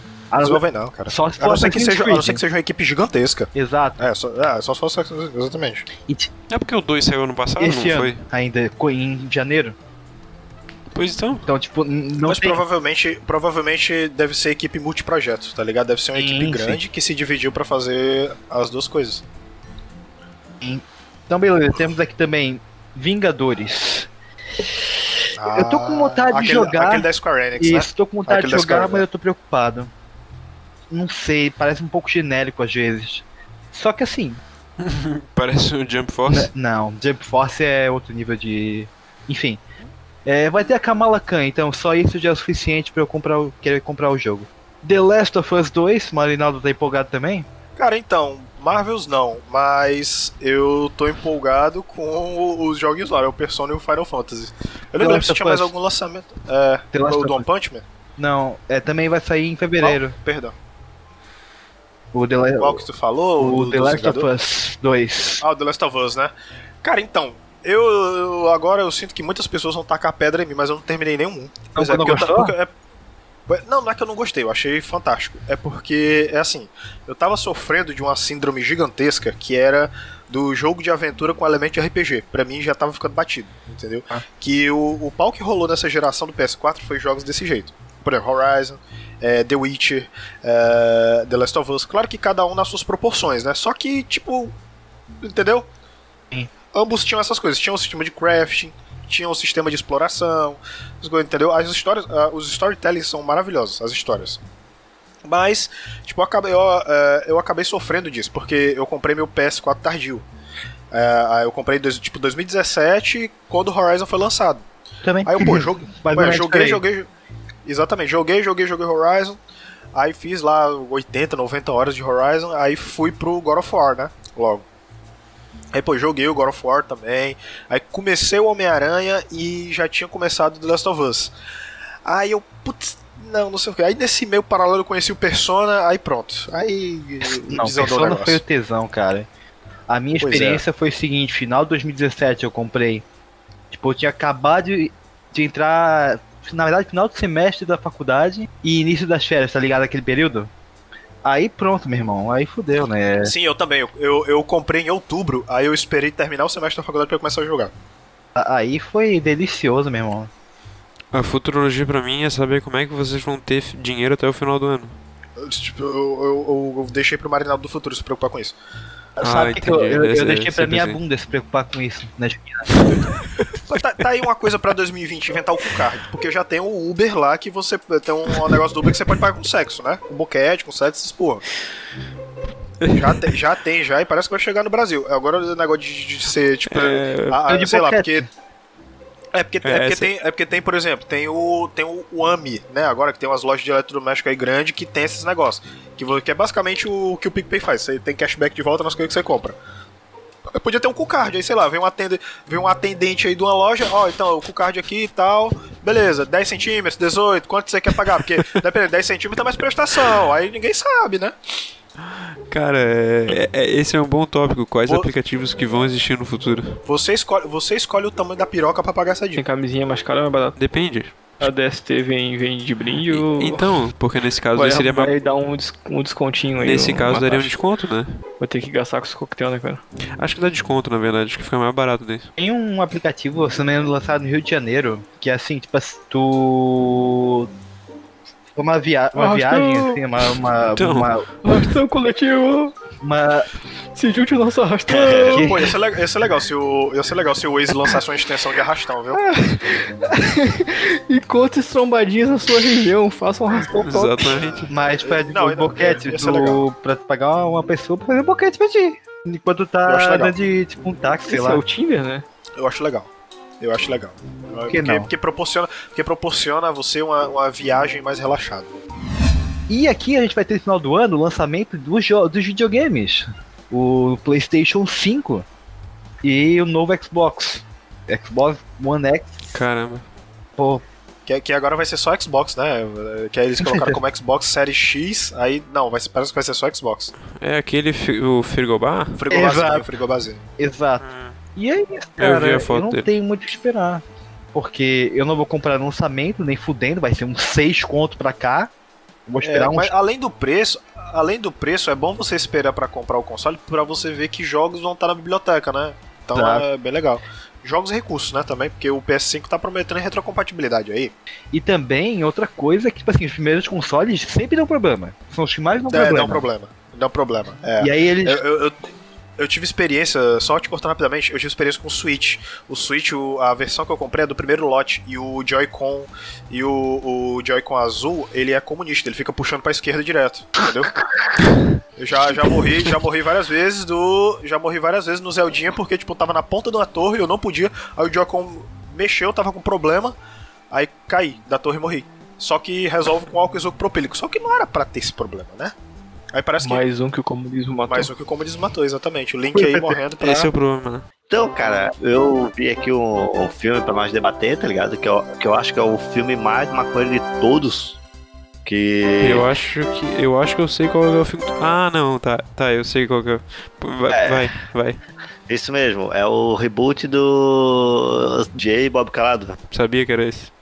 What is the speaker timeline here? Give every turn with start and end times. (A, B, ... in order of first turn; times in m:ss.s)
0:00.3-0:02.4 A
0:00.4-0:05.9 B
0:03.5-0:04.1 A
0:06.0-0:06.3 A
0:06.5-0:08.2 C
0:07.6-0:09.8 A
0:10.9-0:11.5 C
0:11.4-0:12.6 A
0:12.2-0:19.2 B
0:16.1-0:16.8 A
0:20.6-0:24.1 A
0:25.4-0:29.0 B
0:25.5-0:29.9 A
0:30.9-0:34.4 A
0:34.8-0:36.5 C
0:36.3-0:39.6 A
0:40.2-0:47.5 A
0:47.8-0:57.8 B
0:55.0-0:55.7 A
0:56.9-0:57.4 A
0:58.2-1:00.2 A
0:59.8-1:00.5 B
1:02.1-1:02.8 A
1:02.6-1:04.3 B
1:03.4-1:05.4 A
1:05.4-1:06.3 B
1:06.8-1:12.7 B
1:11.7-1:12.5 A
1:13.5-1:34.5 B
1:35.2-1:35.7 B
1:36.7-1:44.4 B
1:45.2-1:50.2 B
1:50.9-1:54.6 B
1:55.0-1:56.8 A
1:55.2-1:57.1 B
1:57.6-1:59.4 B
1:59.9-2:04.6 B
2:05.7-2:11.3 B
2:12.0-2:18.4 B
2:17.3-2:19.3 A
2:19.9-2:23.0 A
2:20.2-2:20.6 B
2:23.7-2:30.5 A
2:31.2-2:33.3 A
2:33.2-2:37.7 B
2:38.4-2:40.3 A
2:41.1-2:45.0 C
2:45.4-2:48.5 B
2:49.2-2:52.8 A
2:49.2-2:51.0 C
2:53.7-3:01.4 B
3:02.8-3:03.2 C
3:02.9-3:08.3 B
3:06.7-3:07.4 C
3:07.4-3:08.3 A
3:09.3-3:19.6 B
3:09.6-3:10.1 C
3:20.5-3:31.3 B
3:32.5-3:36.8 C
3:36.8-3:39.4 B
3:39.4-3:40.6 D
3:40.6-3:41.5 C
3:41.4-3:43.7 D
3:43.1-3:45.1 C
3:44.5-3:47.6 D
3:46.6-3:48.1 C
3:48.4-3:49.8 D
3:50.2-3:52.3 C
3:52.4-3:57.5 A
3:58.6-4:01.3 A
3:59.1-4:00.0 D
4:00.6-4:01.6 C
4:01.4-4:02.7 D
4:03.0-4:03.5 A
4:03.9-4:05.5 D
4:04.9-4:05.4 E
4:05.3-4:05.7 A
4:05.3-4:09.2 B
4:09.1-4:14.4 D
4:13.7-4:14.7 C
4:14.4-4:16.6 B
4:14.7-4:21.6 A
4:19.8-4:20.3 B
4:21.3-4:22.2 D
4:22.6-4:28.7 B
4:24.7-4:25.1 A
4:29.7-4:35.4 A
4:36.2-4:39.4 A
4:39.5-4:40.0 C
4:40.6-4:40.8 A
4:41.2-4:47.1 B
4:43.6-4:44.0 A
4:47.3-4:49.2 C
4:49.2-4:50.4 B
4:49.3-4:49.9 A
4:50.6-4:51.0 A
4:51.0-4:51.3 C
4:51.6-4:54.0 A
4:52.2-4:53.1 C
4:54.5-4:58.7 A
4:59.3-4:59.9 A
4:59.4-5:11.1 B
5:06.3-5:06.7 A
5:11.5-5:16.4 A
5:15.9-5:18.8 B
5:17.8-5:18.4 A
5:19.4-5:31.0 B
5:32.0-5:40.1 B
5:40.7-5:45.7 B
5:46.3-5:46.8 B
5:46.6-5:48.1 D
5:47.9-5:50.5 B
5:49.5-5:49.9 A
5:50.2-5:51.0 C
5:51.3-5:58.0 E
5:58.6-5:59.5 E
5:59.2-6:05.0 C
6:04.1-6:04.5 E
6:05.5-6:09.6 E
6:09.7-6:10.5 C